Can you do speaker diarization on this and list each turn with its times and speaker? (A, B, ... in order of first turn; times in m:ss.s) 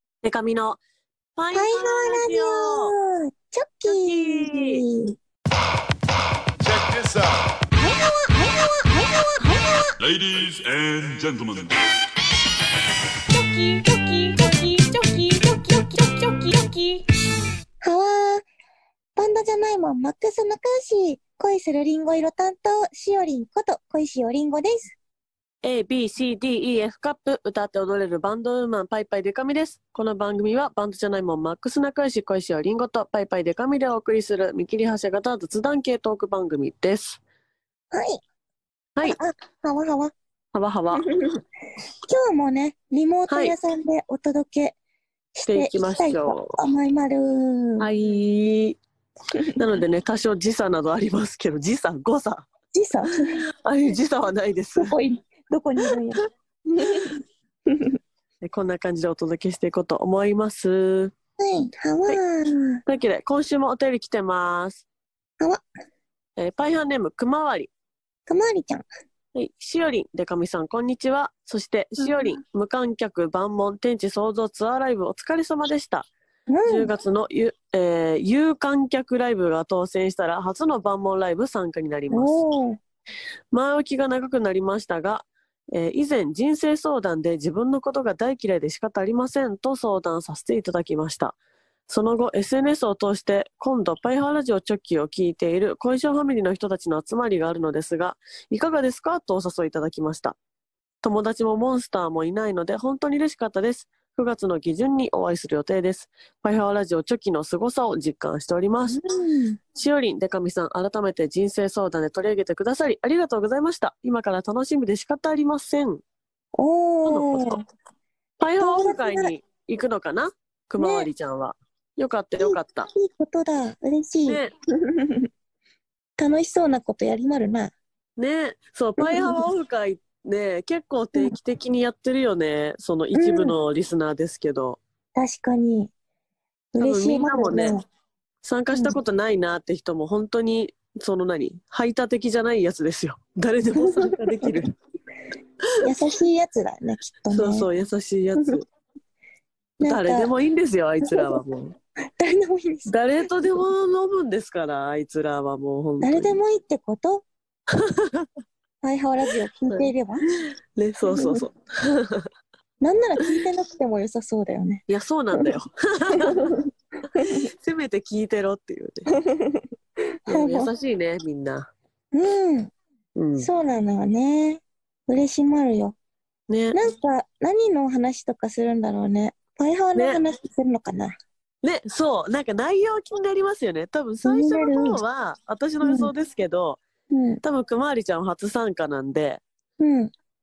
0:00.2-0:00.8 A
0:01.4-0:02.9 A
0:01.5-0:05.1 B
0:03.9-0:04.8 A
0:06.6-0:07.4 C
0:07.9-0:09.5 B
0:10.0-0:11.8 C
0:13.3-0:17.0 A
0:17.8-0:18.4 B
0:19.2-0:25.0 B
0:25.6-0:37.2 A
0:37.9-0:38.2 B
0:39.0-0:40.1 B
0:40.5-0:41.1 A
0:41.0-0:41.4 B
0:42.1-0:44.8 B
0:43.3-0:43.6 A
0:45.3-0:47.9 B
0:45.5-0:46.6 A
0:47.8-0:48.8 A
0:49.5-0:52.4 A
0:52.7-0:53.4 B
0:53.1-0:54.9 A
0:54.8-0:57.1 B
0:56.9-0:57.1 A
0:58.4-1:01.1 A
1:01.4-1:02.8 B
1:02.8-1:04.8 A
1:06.4-1:07.7 A
1:08.3-1:08.8 B
1:09.3-1:16.1 A
1:12.0-1:12.4 B
1:16.5-1:16.9 B
1:16.6-1:22.4 A
1:22.1-1:22.8 B
1:23.5-1:40.4 A
1:41.0-1:49.0 A
1:48.9-1:49.6 B
1:49.7-1:56.0 A
1:56.5-1:57.6 B
1:57.0-1:57.6 A
1:58.4-2:02.9 A
1:58.6-1:59.3 B
2:00.8-2:01.1 B
2:02.4-2:05.3 B
2:04.2-2:04.5 A
2:06.2-2:07.7 B
2:08.2-2:14.8 A
2:09.0-2:09.4 B
2:13.1-2:13.6 B
2:15.2-2:15.9 B
2:16.7-2:17.8 B
2:16.8-2:17.7 A
2:18.4-2:24.7 A
2:23.8-2:24.6 B
2:25.8-2:27.7 B
2:27.3-2:28.6 A
2:29.8-2:30.3 B
2:29.8-2:31.8 A
2:31.0-2:31.4 B
2:32.2-2:32.9 B
2:32.9-2:36.4 A
2:36.0-2:37.2 B
2:37.7-2:38.3 A
2:38.8-2:40.2 B
2:39.7-2:39.9 A
2:40.7-2:42.2 A
2:41.1-2:41.4 B
2:42.8-2:45.5 B
2:44.9-2:46.5 A
2:46.1-2:46.6 B
2:47.1-2:47.5 B
2:47.2-2:49.1 A
2:49.2-2:49.6 B
2:50.2-2:50.7 B
2:50.3-2:51.7 A
2:52.1-2:52.7 B
2:53.2-2:53.5 A
2:53.4-2:56.0 B
2:56.5-2:56.8 A
2:56.7-3:01.1 B
2:59.9-3:00.2 A
3:01.6-3:06.8 A
3:04.2-3:05.0 B
3:05.8-3:06.1 B
3:07.1-3:07.4 B
3:07.4-3:09.4 A
3:09.8-3:10.1 B